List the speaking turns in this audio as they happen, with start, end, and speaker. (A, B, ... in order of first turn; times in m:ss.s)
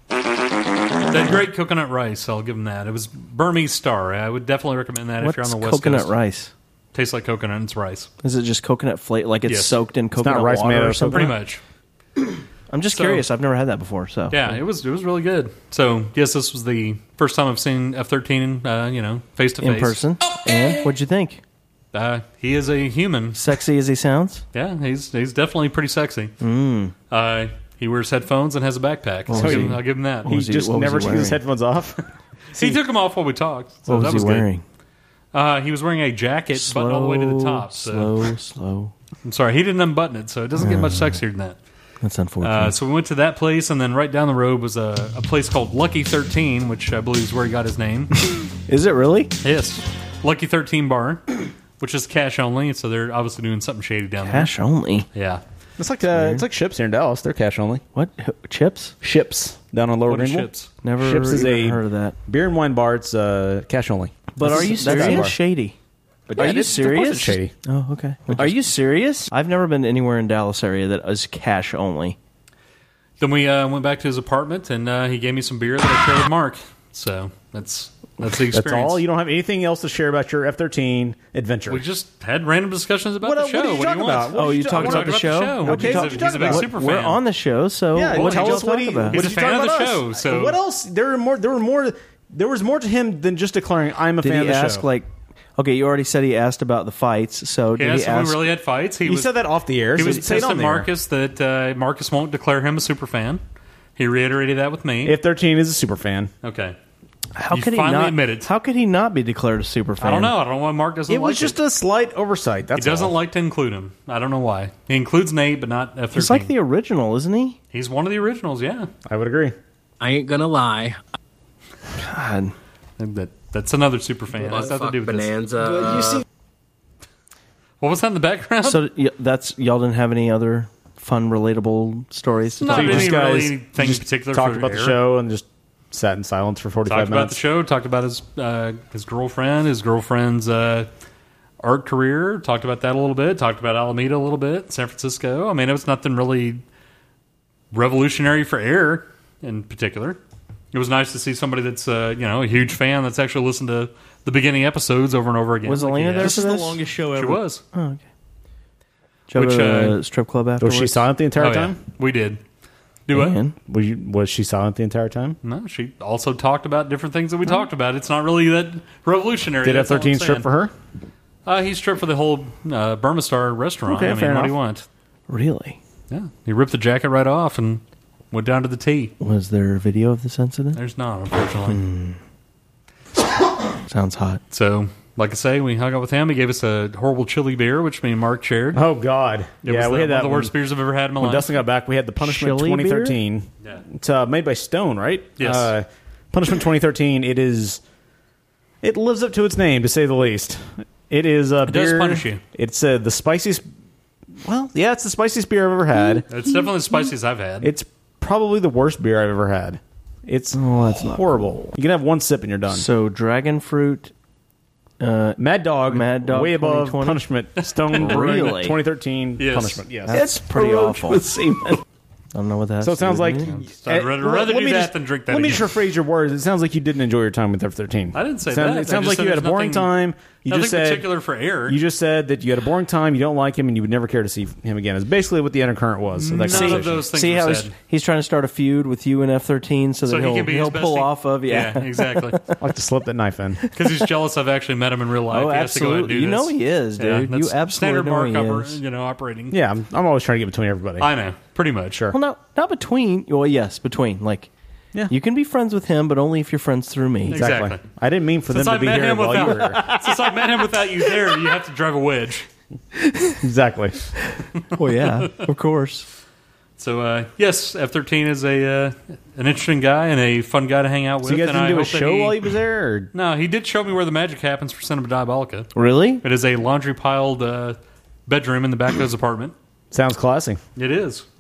0:01.1-0:06.1 A
0:05.2-0:06.5 B
0:06.9-0:08.1 A
0:08.2-0:11.3 B
0:09.5-0:09.8 A
0:10.2-0:11.3 C
0:11.1-0:11.6 A
0:12.7-0:14.6 B
0:12.9-0:13.2 A
0:14.3-0:20.0 A
0:19.6-0:21.4 B
0:21.9-0:23.4 A
0:23.4-0:24.4 B
0:24.5-0:26.3 A
0:26.4-0:26.9 B
0:27.1-0:30.3 A
0:29.3-0:31.4 B
0:29.4-0:32.0 C
0:32.6-0:34.5 A
0:33.9-0:34.6 B
0:35.3-0:38.2 A
0:36.5-0:38.9 B
0:39.2-0:41.6 A
0:40.6-0:41.2 B
0:42.0-0:42.7 B
0:42.4-0:48.1 A
0:48.7-0:49.3 B
0:49.4-0:51.2 A
0:51.8-0:54.5 A
0:54.2-0:55.1 B
0:55.1-0:55.4 A
0:55.8-0:57.8 C
0:56.1-0:56.4 B
0:57.9-0:59.0 B
0:59.0-1:00.5 C
1:00.1-1:00.7 A
1:00.8-1:02.2 B
1:01.0-1:05.4 C
1:04.4-1:05.8 B
1:06.3-1:07.5 C
1:06.4-1:12.2 B
1:13.2-1:19.0 A
1:18.5-1:21.8 C
1:21.7-1:27.2 A
1:23.2-1:26.7 C
1:24.3-1:29.2 B
1:28.0-1:34.9 C
1:28.1-1:30.6 A
1:34.2-1:38.4 B
1:37.8-1:39.3 A
1:39.1-1:40.9 C
1:39.9-1:43.4 A
1:44.0-1:45.2 A
1:45.0-1:46.3 C
1:46.4-1:46.8 A
1:47.4-1:50.3 B
1:47.5-1:48.5 A
1:50.0-1:51.6 A
1:51.1-1:53.1 C
1:52.8-1:56.5 A
1:56.1-1:57.6 B
1:57.7-1:58.9 A
1:59.1-1:59.6 C
2:00.0-2:01.0 D
2:02.0-2:02.5 B
2:03.0-2:05.4 A
2:04.5-2:06.2 D
2:07.8-2:08.8 A
2:08.6-2:13.2 B
2:12.6-2:15.0 A
2:12.7-2:17.4 C
2:16.9-2:20.9 A
2:21.6-2:26.6 A
2:27.7-2:30.2 A
2:30.7-2:37.6 A
2:35.6-2:38.1 B
2:36.2-2:36.5 C
2:39.3-2:41.0 B
2:39.3-2:40.0 A
2:40.6-2:41.8 C
2:41.4-2:42.4 A
2:43.1-2:43.4 A
2:43.1-2:43.5 B
2:43.7-2:45.4 C
2:45.4-2:50.5 A
2:49.6-2:50.7 C
2:51.5-2:54.9 A
2:53.9-2:54.5 C
2:55.3-2:55.8 B
2:56.1-2:59.1 A
2:59.2-3:00.8 B
3:00.8-3:01.8 A
3:01.7-3:02.2 B
3:03.9-3:04.4 B
3:04.5-3:08.8 A
3:08.7-3:10.5 C
3:09.6-3:11.6 A
3:11.2-3:17.8 C
3:12.2-3:13.2 B
3:15.4-3:15.7 A
3:18.8-3:23.6 C
3:21.7-3:22.4 A
3:24.4-3:26.2 C
3:26.3-3:27.7 A
3:27.6-3:32.9 C
3:30.5-3:31.7 B
3:32.7-3:34.1 B
3:35.0-3:37.2 B
3:35.4-3:41.4 C
3:37.9-3:38.5 A
3:37.9-3:38.8 B
3:39.4-3:40.1 A
3:40.1-3:41.8 B
3:42.3-3:43.5 B
3:42.8-3:51.1 C
3:43.4-3:45.8 A
3:48.1-3:49.9 A
3:50.5-3:51.8 A
3:51.7-3:57.0 C
3:56.2-3:57.7 A
3:56.5-4:02.4 B
4:00.1-4:02.4 A
4:02.6-4:03.6 C
4:03.7-4:09.6 A
4:05.3-4:08.8 B
4:09.5-4:11.1 C
4:11.0-4:12.1 A
4:12.1-4:14.5 B
4:15.1-4:17.4 B
4:17.3-4:17.8 A
4:17.3-4:19.8 C
4:18.5-4:22.5 A
4:19.7-4:20.0 B
4:23.4-4:24.0 C
4:24.8-4:26.1 B
4:26.8-4:32.4 A
4:31.2-4:33.1 C
4:33.1-4:35.7 A
4:35.8-4:36.2 B
4:36.2-4:39.5 A
4:39.9-4:40.6 C
4:40.8-4:41.2 A